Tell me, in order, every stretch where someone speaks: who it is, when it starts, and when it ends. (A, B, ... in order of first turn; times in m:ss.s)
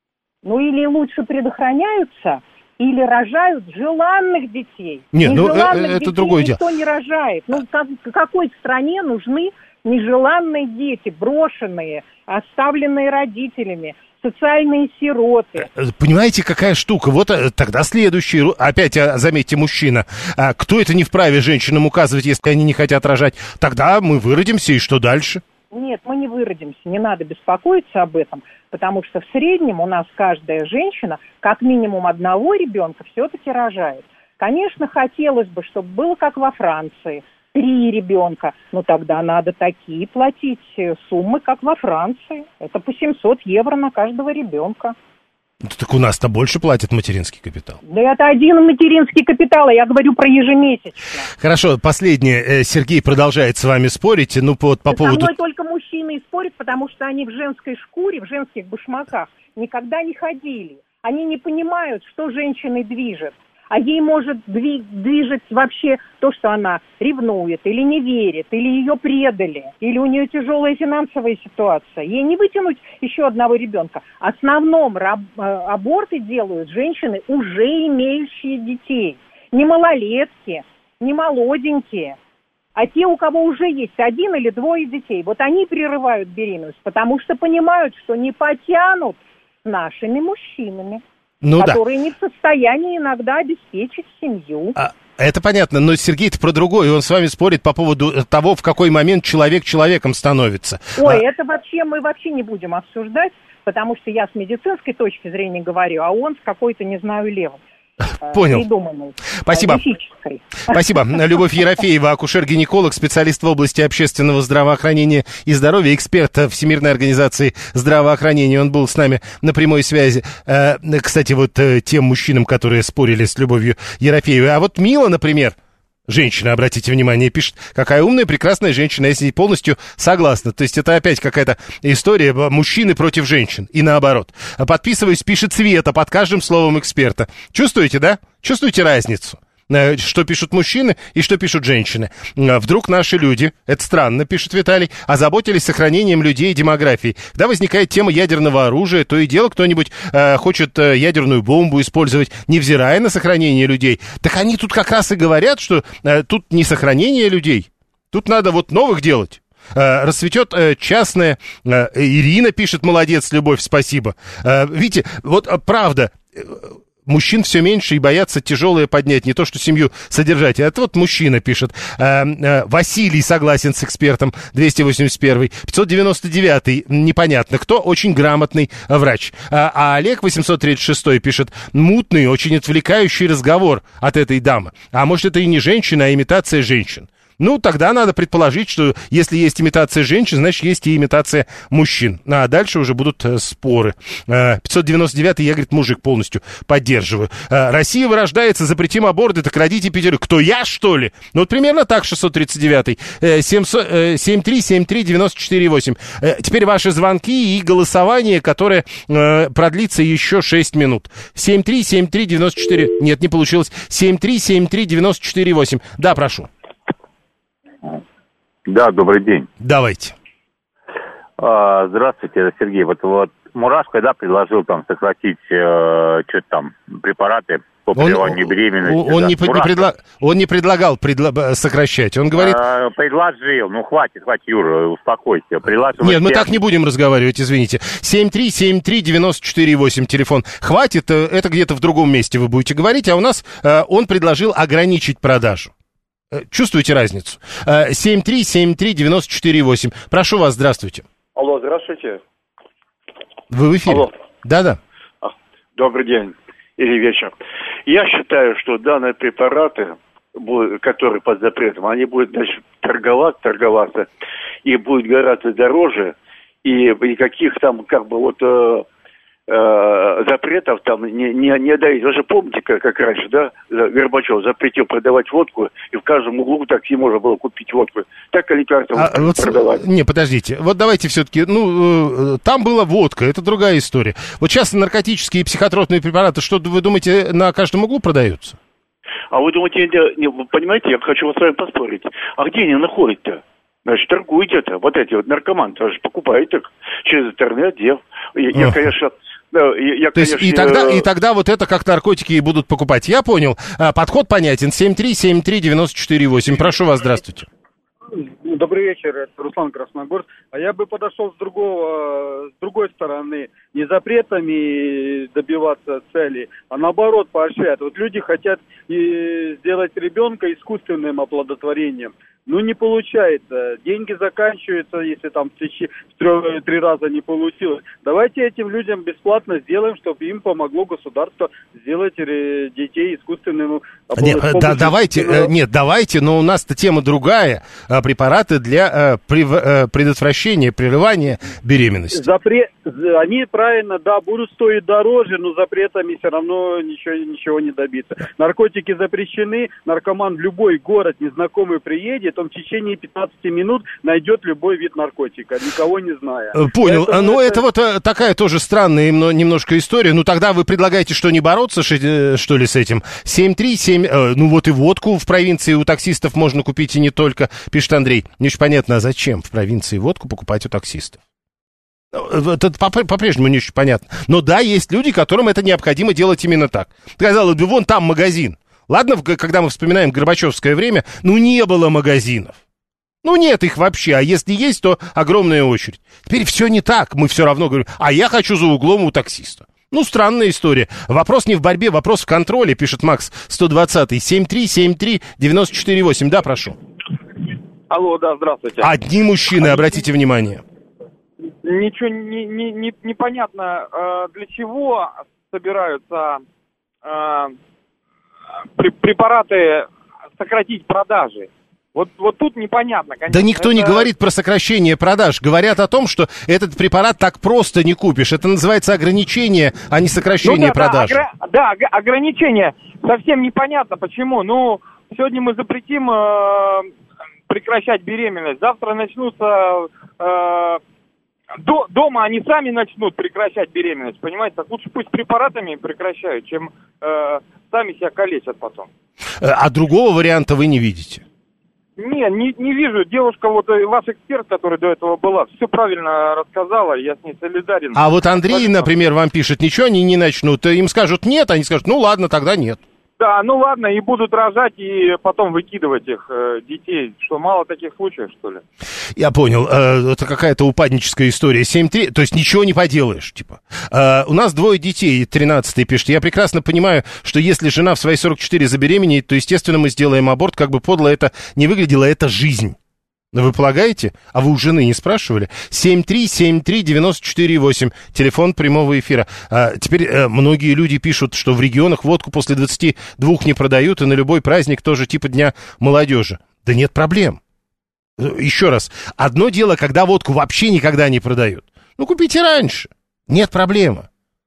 0:00.4-0:15.7 A
0:05.1-0:06.6 B
0:15.6-0:25.4 B
0:25.7-0:45.0 A
0:45.6-0:47.8 B
0:47.8-0:51.3 A
0:51.4-0:55.3 B
0:54.9-1:22.2 A
1:22.8-1:31.0 A
1:31.4-1:31.8 B
1:31.6-1:34.8 A
1:34.8-1:41.2 B
1:41.0-1:47.6 A
1:48.2-1:50.8 A
1:48.3-1:48.7 B
1:49.4-1:49.8 B
1:50.7-2:05.6 B
2:06.1-3:36.5 B
3:38.7-3:39.5 C
3:39.6-3:40.1 B
3:41.4-3:49.9 C
3:48.0-3:52.6 B
3:52.3-3:56.6 C
3:56.0-4:05.7 B
4:06.3-4:11.1 B
4:11.4-4:12.2 D
4:13.5-4:14.8 B
4:15.2-4:17.3 D
4:17.9-4:24.1 D
4:24.6-4:28.9 D
4:29.5-4:39.8 D
4:38.9-4:48.6 B
4:49.3-5:01.1 D
4:58.5-4:58.8 B
5:00.1-5:07.5 B
5:08.1-5:35.5 E
5:34.2-5:42.3 B
5:42.1-5:57.6 E
5:56.5-6:11.2 B
6:12.1-6:22.6 B
6:23.2-6:36.8 B
6:37.9-6:38.9 F
6:38.8-6:40.6 B
6:39.5-6:40.0 F
6:41.6-6:46.4 F
6:47.0-6:47.6 F
6:48.8-6:54.1 F
6:53.3-7:01.2 B
7:00.4-7:06.9 F
7:07.5-7:10.8 F
7:11.6-7:18.9 F
7:19.4-7:21.2 B
7:22.0-7:28.9 F
7:27.9-7:32.8 B
7:33.2-7:38.6 F
7:39.2-7:52.8 B
7:53.3-8:07.4 B
8:08.2-8:14.1 B